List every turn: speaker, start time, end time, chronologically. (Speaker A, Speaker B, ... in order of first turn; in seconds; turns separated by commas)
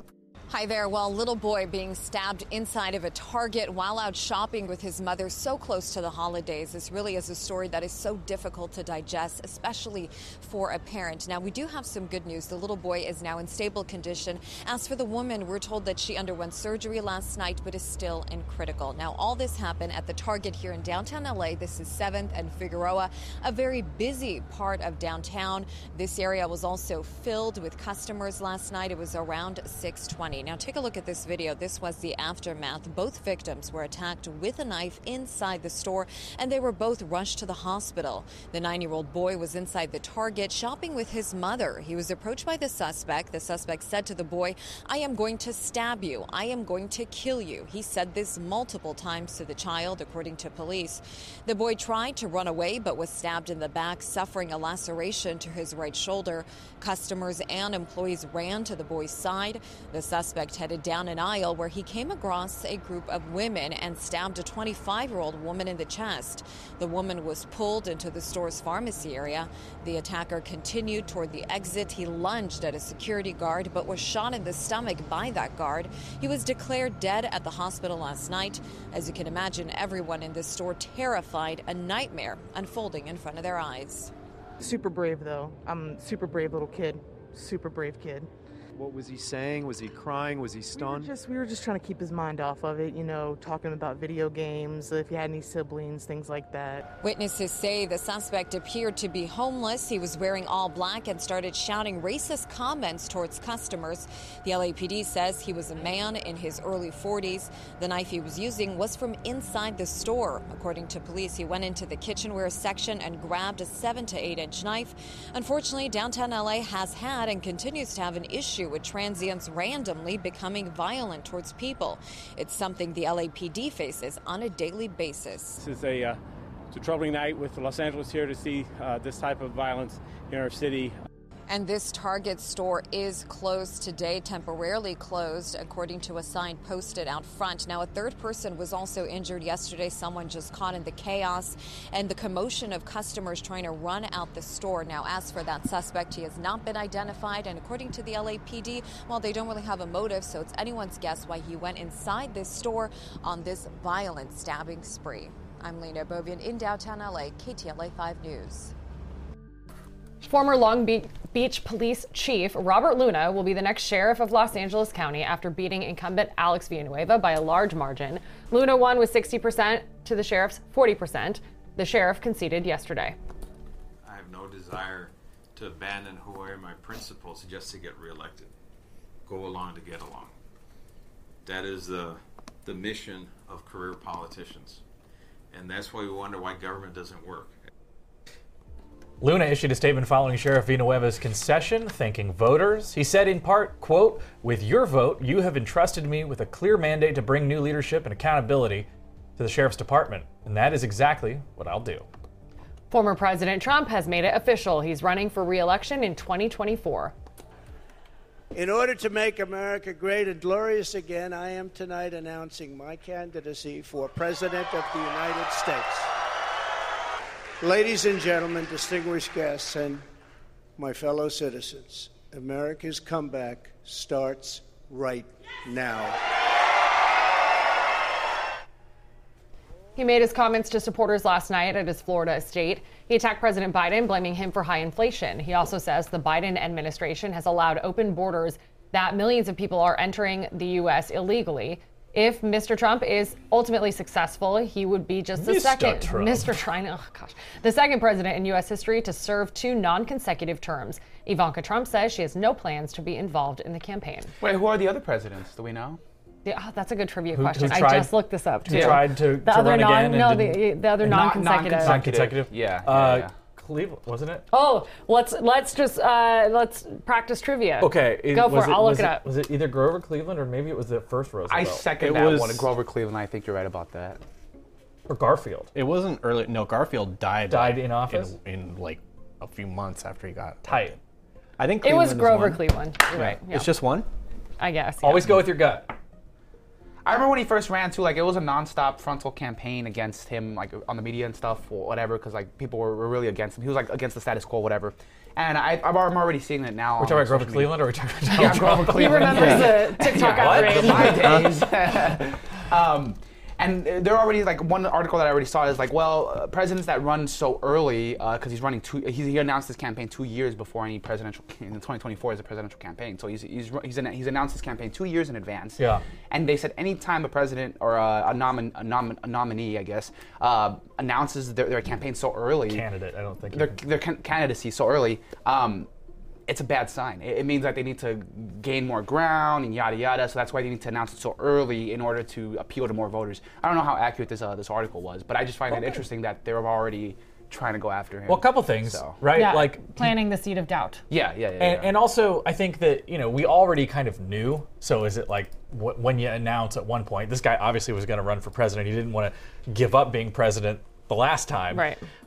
Speaker A: 0.5-84.1, Speaker B: 84.6-88.3, Speaker C: 88.8-91.1, Speaker B: 90.7-96.8, Speaker A: 97.0-125.6, Speaker D: 125.6-126.2, Speaker D: 126.7-131.0, Speaker A: 131.5-158.7, Speaker E: 160.2-173.2, Speaker F: 174.0-178.5, Speaker F: 179.3-180.3, Speaker F: 181.4-184.8, Speaker F: 185.5-187.6, Speaker G: 189.2-198.9, Speaker G: 199.4-202.1, Speaker E: 202.9-207.1, Speaker H: 208.5-216.1, Speaker H: 217.6-220.1, Speaker H: 220.8-226.2, Speaker E: 230.0-254.3, Speaker G: 245.4-246.5, Speaker I: 254.4-256.0, Speaker E: 256.4-262.1, Speaker G: 257.3-258.1, Speaker G: 258.7-260.6, Speaker I: 258.7-259.0, Speaker I: 261.0-263.3, Speaker G: 261.8-264.5, Speaker E: 264.5-269.2, Speaker G: 267.8-271.9, Speaker I: 271.5-274.2, Speaker J: 272.0-272.7, Speaker G: 275.1-275.7, Speaker J: 275.8-281.0, Speaker G: 277.5-278.3, Speaker G: 280.6-281.0, Speaker J: 281.6-284.1, Speaker E: 281.8-283.7, Speaker E: 284.6-285.4, Speaker G: 285.0-285.9, Speaker I: 287.1-322.9, Speaker G: 297.0-301.4, Speaker E: 298.9-301.3, Speaker J: 299.4-299.7, Speaker G: 315.8-316.0, Speaker G: 322.7-323.8, Speaker I: 323.5-325.9, Speaker I: 326.5-339.2, Speaker G: 338.3-340.1, Speaker E: 339.3-341.0, Speaker I: 341.1-341.9, Speaker G: 341.6-351.9, Speaker E: 351.7-352.0